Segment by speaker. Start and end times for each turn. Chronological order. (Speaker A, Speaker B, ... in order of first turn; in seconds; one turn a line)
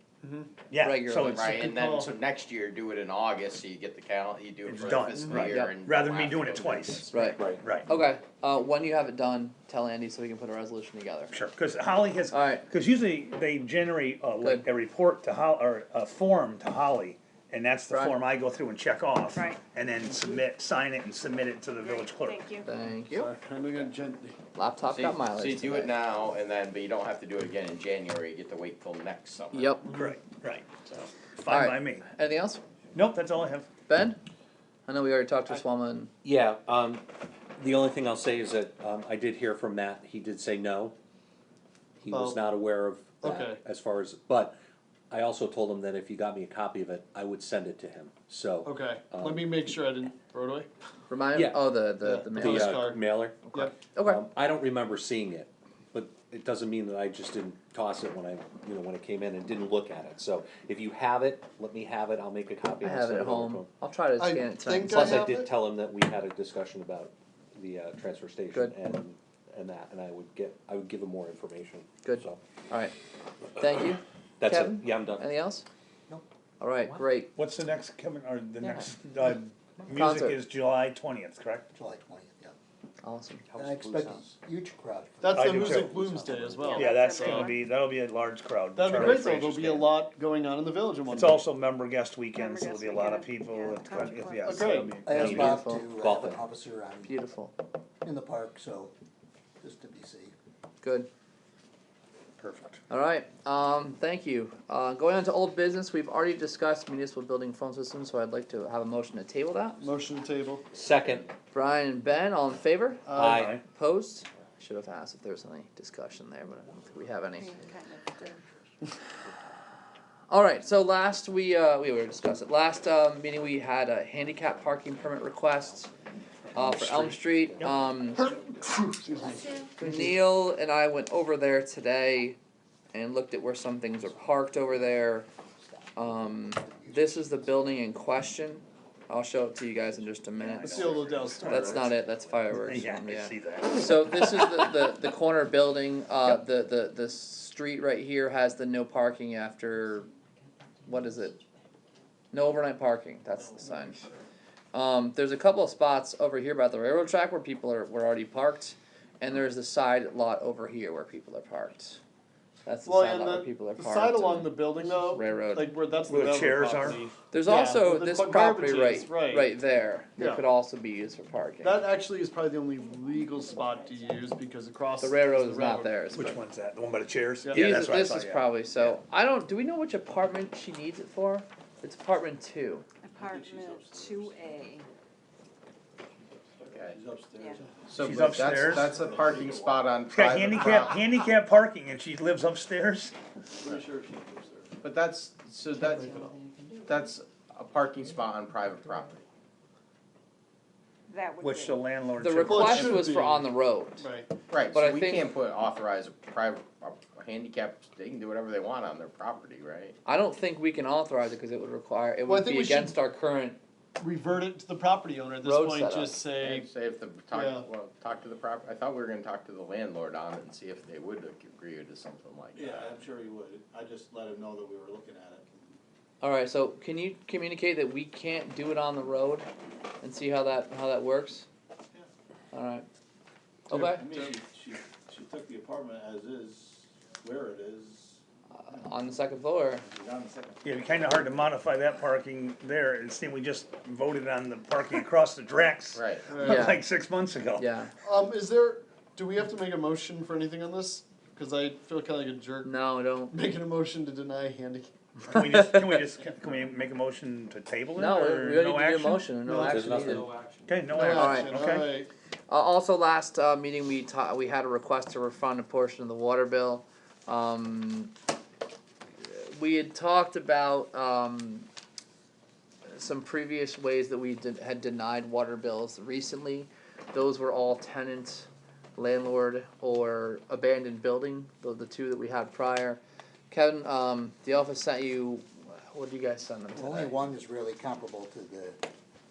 Speaker A: 0.2-0.6
Speaker B: 0.7-1.6
Speaker C: 0.8-1.4
Speaker D: 1.2-7.8
Speaker A: 1.4-2.1
Speaker B: 4.6-7.9
Speaker A: 5.2-5.5
Speaker E: 7.3-7.7
Speaker C: 7.9-11.3
Speaker B: 11.3-22.6
Speaker C: 12.3-12.7
Speaker C: 14.4-14.7
Speaker C: 17.9-18.2
Speaker F: 19.3-19.6
Speaker F: 21.8-22.7
Speaker C: 22.6-23.2
Speaker A: 23.1-24.4
Speaker C: 24.5-25.9
Speaker D: 24.8-29.8
Speaker C: 29.5-29.8
Speaker B: 29.9-30.7
Speaker B: 31.3-32.0
Speaker C: 31.5-32.6
Speaker B: 32.9-33.7
Speaker C: 33.9-34.2
Speaker C: 34.9-36.1
Speaker E: 36.2-41.0
Speaker E: 42.0-44.6
Speaker A: 42.1-42.4
Speaker A: 43.2-43.6
Speaker E: 45.1-49.6
Speaker A: 48.6-50.7
Speaker C: 51.1-52.7
Speaker E: 51.3-51.7
Speaker A: 52.0-53.8
Speaker E: 52.3-63.8
Speaker C: 53.8-54.2
Speaker C: 62.8-65.2
Speaker A: 64.2-65.5
Speaker E: 64.8-72.4
Speaker C: 68.5-68.8
Speaker C: 72.0-73.0
Speaker C: 73.6-75.7
Speaker E: 74.4-75.2
Speaker C: 76.6-77.3
Speaker B: 77.3-81.7
Speaker C: 79.9-80.4
Speaker G: 81.7-82.5
Speaker C: 83.0-83.4
Speaker E: 83.4-84.3
Speaker G: 83.5-86.3
Speaker A: 85.2-87.5
Speaker B: 85.3-85.9
Speaker E: 86.0-86.5
Speaker F: 86.2-87.7
Speaker B: 86.7-89.9
Speaker A: 88.7-91.4
Speaker B: 91.1-95.6
Speaker F: 92.3-94.6
Speaker A: 94.4-95.0
Speaker G: 95.0-97.1
Speaker E: 95.1-96.4
Speaker C: 95.1-96.0
Speaker C: 97.0-97.5
Speaker G: 98.0-98.9
Speaker G: 99.6-100.3
Speaker C: 100.8-101.1
Speaker B: 102.4-102.8
Speaker C: 102.9-109.8
Speaker A: 109.8-110.6
Speaker E: 110.7-111.3
Speaker C: 111.5-117.5
Speaker A: 113.0-113.6
Speaker E: 113.2-113.6
Speaker F: 117.3-118.4
Speaker C: 120.3-125.9
Speaker B: 126.5-128.5
Speaker C: 126.5-128.2
Speaker E: 126.5-127.7
Speaker A: 128.2-130.1
Speaker F: 129.3-129.7
Speaker C: 129.7-132.4
Speaker C: 132.9-135.3
Speaker G: 134.1-135.0
Speaker G: 135.7-137.9
Speaker C: 135.9-140.7
Speaker B: 140.4-141.9
Speaker A: 140.6-141.9
Speaker C: 141.4-150.1
Speaker G: 141.8-142.4
Speaker B: 142.5-144.5
Speaker C: 150.8-151.4
Speaker C: 152.3-154.0
Speaker A: 153.4-154.2
Speaker C: 154.7-162.0
Speaker C: 162.6-165.7
Speaker A: 162.8-169.5
Speaker B: 166.1-167.0
Speaker C: 167.3-171.8
Speaker A: 170.2-170.4
Speaker A: 171.6-176.3
Speaker F: 173.0-174.1
Speaker C: 175.0-176.3
Speaker B: 176.1-178.5
Speaker C: 177.5-182.8
Speaker F: 183.0-184.9
Speaker H: 183.2-184.5
Speaker H: 186.4-189.8
Speaker D: 186.7-187.0
Speaker F: 187.3-187.6
Speaker D: 187.9-191.0
Speaker B: 187.9-188.9
Speaker B: 190.1-193.2
Speaker H: 190.5-190.8
Speaker H: 193.6-194.7
Speaker D: 194.8-199.2
Speaker C: 195.9-196.2
Speaker F: 201.1-201.9
Speaker B: 201.4-202.9
Speaker C: 202.2-204.0
Speaker A: 202.4-204.3
Speaker D: 204.5-209.9
Speaker C: 204.7-205.3
Speaker C: 210.1-213.6
Speaker A: 212.2-213.0
Speaker A: 214.0-216.7
Speaker C: 215.4-216.1
Speaker D: 216.4-222.9
Speaker A: 217.3-217.6
Speaker H: 222.5-225.8
Speaker C: 226.2-229.5
Speaker C: 230.0-231.5
Speaker C: 232.5-232.9
Speaker C: 233.7-234.1
Speaker H: 233.7-238.2
Speaker C: 238.6-239.8
Speaker H: 239.8-240.6
Speaker B: 240.6-247.7
Speaker D: 245.9-246.3
Speaker A: 246.3-246.7
Speaker C: 247.6-247.9
Speaker A: 248.0-255.5
Speaker C: 252.6-253.4
Speaker B: 255.3-259.5
Speaker C: 257.9-260.4
Speaker A: 259.4-259.9
Speaker E: 259.6-260.5
Speaker B: 260.6-262.0
Speaker A: 260.9-262.1
Speaker C: 261.2-261.5
Speaker C: 262.5-268.1
Speaker C: 269.2-271.7
Speaker C: 272.9-287.2
Speaker G: 286.7-288.8